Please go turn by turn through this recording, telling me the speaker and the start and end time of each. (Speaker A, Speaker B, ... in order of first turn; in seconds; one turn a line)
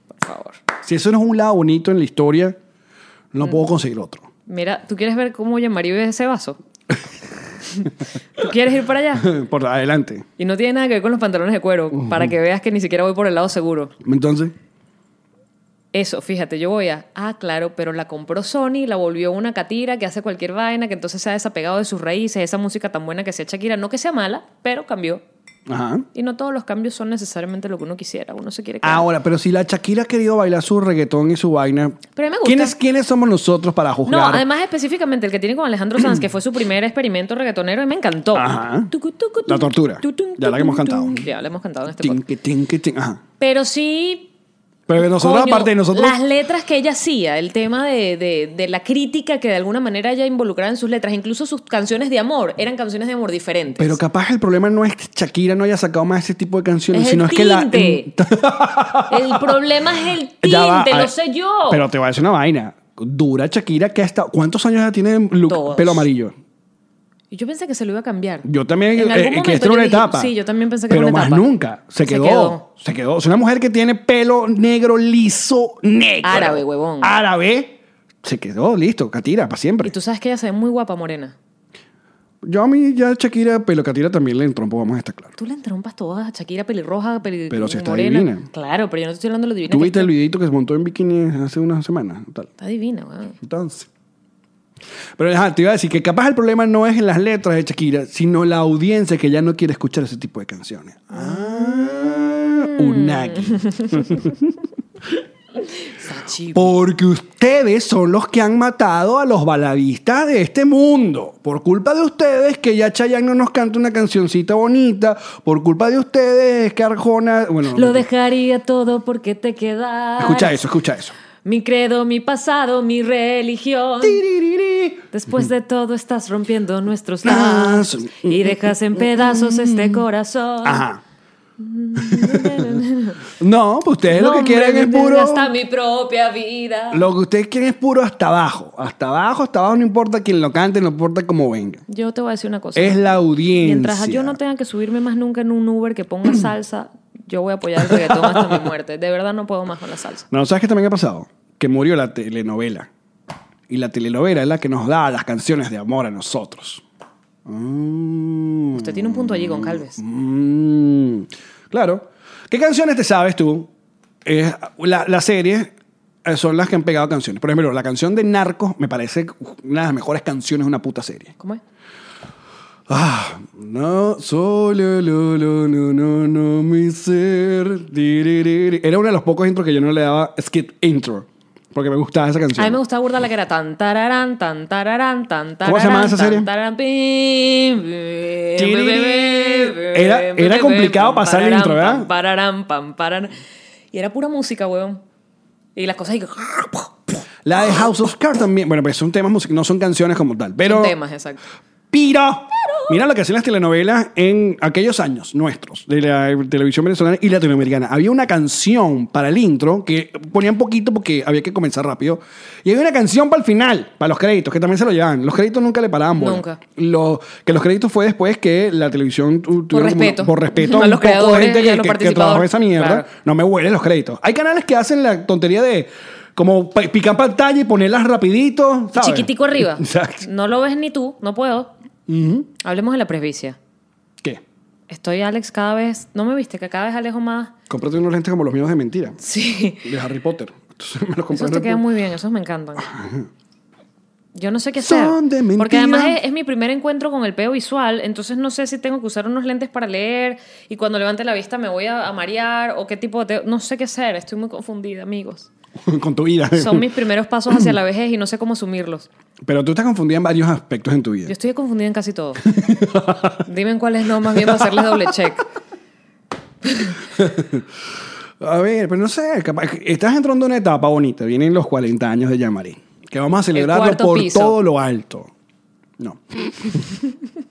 Speaker A: 0.1-0.6
Speaker B: 0.8-2.6
Speaker B: 3.3-4.2
Speaker A: 4.5-6.6
Speaker A: 7.7-9.3
Speaker B: 9.2-10.3
Speaker A: 10.4-13.9
Speaker B: 14.0-14.5
Speaker A: 15.9-25.2
Speaker B: 25.7-26.1
Speaker A: 26.1-29.1
Speaker B: 28.8-34.4
Speaker A: 32.1-32.7
Speaker A: 34.0-42.2
Speaker B: 38.3-38.9
Speaker B: 39.5-41.2
Speaker B: 42.0-43.2
Speaker A: 43.4-44.3
Speaker B: 44.9-46.2
Speaker A: 45.0-54.0
Speaker B: 53.8-59.6
Speaker A: 56.9-58.1
Speaker A: 59.1-61.8
Speaker B: 60.4-61.1
Speaker B: 61.7-66.3
Speaker A: 65.5-66.1
Speaker A: 67.3-71.5
Speaker B: 68.4-70.3
Speaker B: 70.9-79.9
Speaker A: 72.0-72.6
Speaker A: 76.2-77.1
Speaker A: 79.8-81.3
Speaker B: 82.4-85.3
Speaker A: 85.4-90.1
Speaker B: 87.5-88.5
Speaker B: 89.7-92.5
Speaker A: 92.6-93.4
Speaker B: 93.4-93.9
Speaker B: 95.2-104.5
Speaker A: 101.2-101.9
Speaker A: 102.6-104.3
Speaker A: 105.7-106.7
Speaker B: 106.5-118.0
Speaker A: 117.7-120.6
Speaker B: 120.2-121.1
Speaker A: 121.4-124.2
Speaker B: 124.0-125.0
Speaker A: 125.1-130.8
Speaker B: 127.2-130.0
Speaker B: 130.6-131.0
Speaker A: 131.6-133.2
Speaker B: 132.0-132.8
Speaker B: 133.4-135.5
Speaker A: 134.1-137.1
Speaker B: 136.9-141.8
Speaker A: 141.9-150.2
Speaker B: 142.8-144.4
Speaker B: 147.8-148.6
Speaker B: 150.3-152.9
Speaker B: 153.7-156.8
Speaker B: 157.4-163.7
Speaker A: 158.7-160.0
Speaker B: 164.2-165.7
Speaker B: 166.2-171.3
Speaker B: 172.9-182.8
Speaker A: 182.6-193.3
Speaker B: 185.6-186.5
Speaker B: 188.6-192.1
Speaker A: 193.9-195.0
Speaker A: 195.8-197.0
Speaker B: 197.4-200.9
Speaker A: 200.6-201.4
Speaker B: 201.9-230.2
Speaker A: 216.2-216.6
Speaker A: 219.7-223.1
Speaker A: 228.9-231.7
Speaker B: 232.1-232.5
Speaker A: 232.6-233.6
Speaker A: 234.9-237.5
Speaker B: 237.7-239.2
Speaker A: 239.2-239.9
Speaker B: 239.8-241.8
Speaker A: 241.3-242.9
Speaker B: 242.9-243.3
Speaker A: 244.3-255.5
Speaker B: 244.8-246.2
Speaker B: 255.8-256.9
Speaker A: 256.5-259.1
Speaker B: 259.4-261.3
Speaker A: 261.3-262.5
Speaker B: 262.4-263.4
Speaker A: 263.4-265.4
Speaker B: 264.3-265.1
Speaker A: 266.6-267.0
Speaker B: 267.1-267.6
Speaker B: 268.4-275.3
Speaker A: 273.5-274.6
Speaker B: 276.0-277.0